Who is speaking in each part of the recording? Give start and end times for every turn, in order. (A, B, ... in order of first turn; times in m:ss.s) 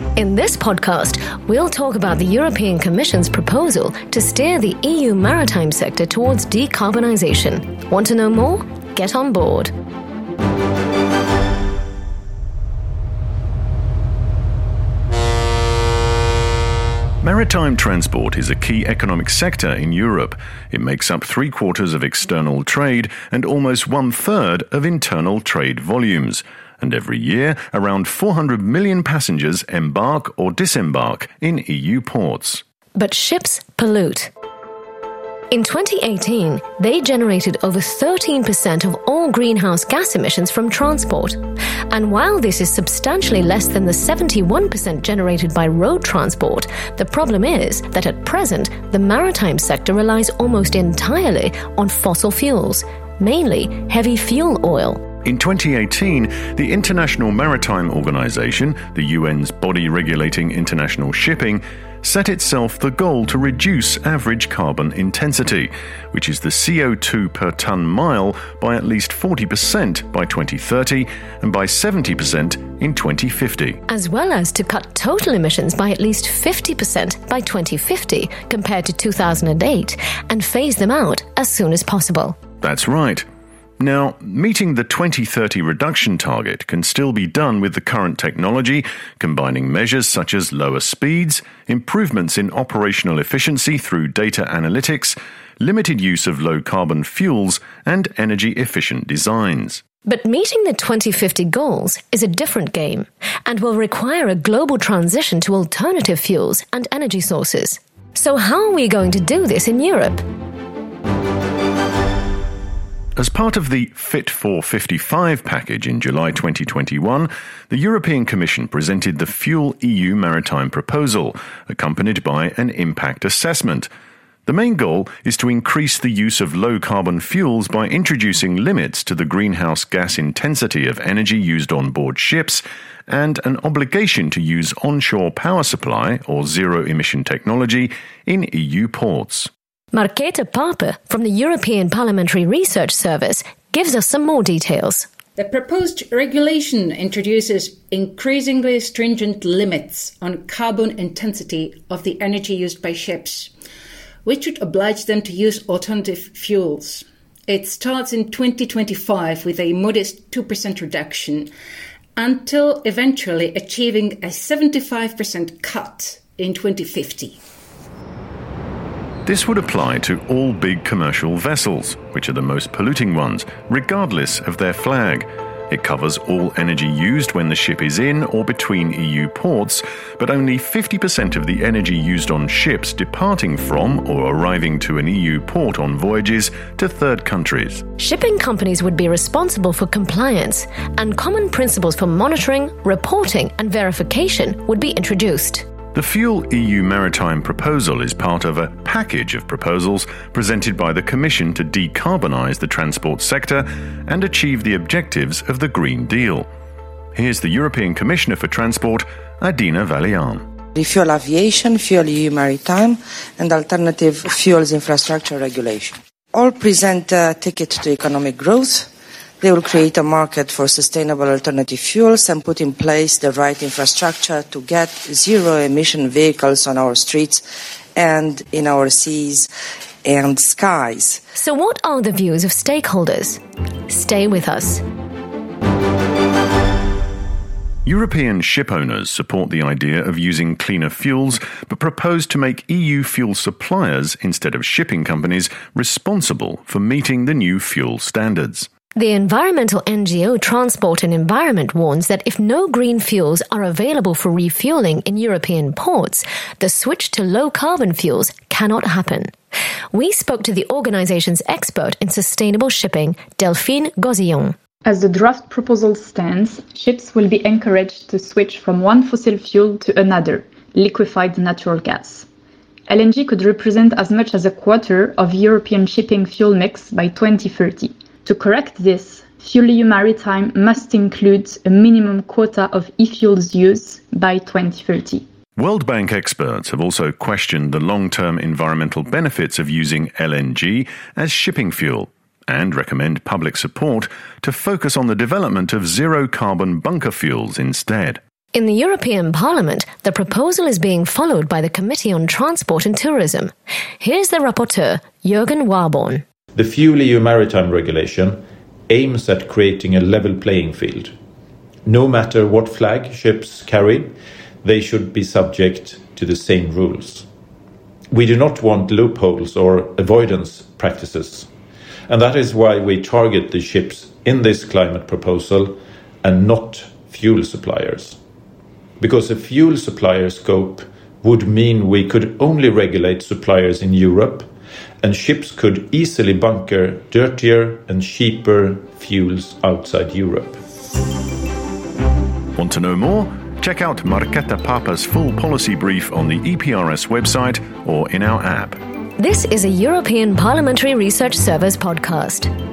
0:00.1-0:09.7 A
0:17.2-0:32.6 B
0:33.0-0:34.3 A
0:35.5-0:41.4 A
0:41.9-0:55.0 A
0:55.2-1:13.8 B
1:13.9-1:22.4 A
1:22.6-1:23.2 B
1:23.8-1:39.8 B
1:40.0-1:50.2 A
1:53.2-2:03.9 B
2:04.4-2:19.5 B
2:19.9-2:25.1 A
2:25.4-2:33.5 C
2:34.2-2:41.5 C
2:42.2-2:47.4 C
2:49.2-3:07.9 B
3:08.0-3:15.6 A
3:15.9-3:26.5 B
3:27.1-3:30.5 B
3:30.7-3:49.5 D
3:50.0-3:51.2 D
3:51.3-3:54.8 A
3:57.8-4:08.7 B
4:08.9-4:19.3 A
4:19.9-4:24.6 A
4:24.8-4:32.2 E
4:32.9-4:45.2 E
4:45.6-4:58.2 B
4:58.5-5:06.2 A
5:06.5-5:11.1 F
5:11.8-5:14.1 F
5:14.6-5:17.2 F
5:18.1-5:21.5 F
5:22.1-5:28.2 F
5:29.0-5:34.5 F
5:35.0-5:40.6 F
5:42.6-5:48.8 B
5:49.2-5:52.5 A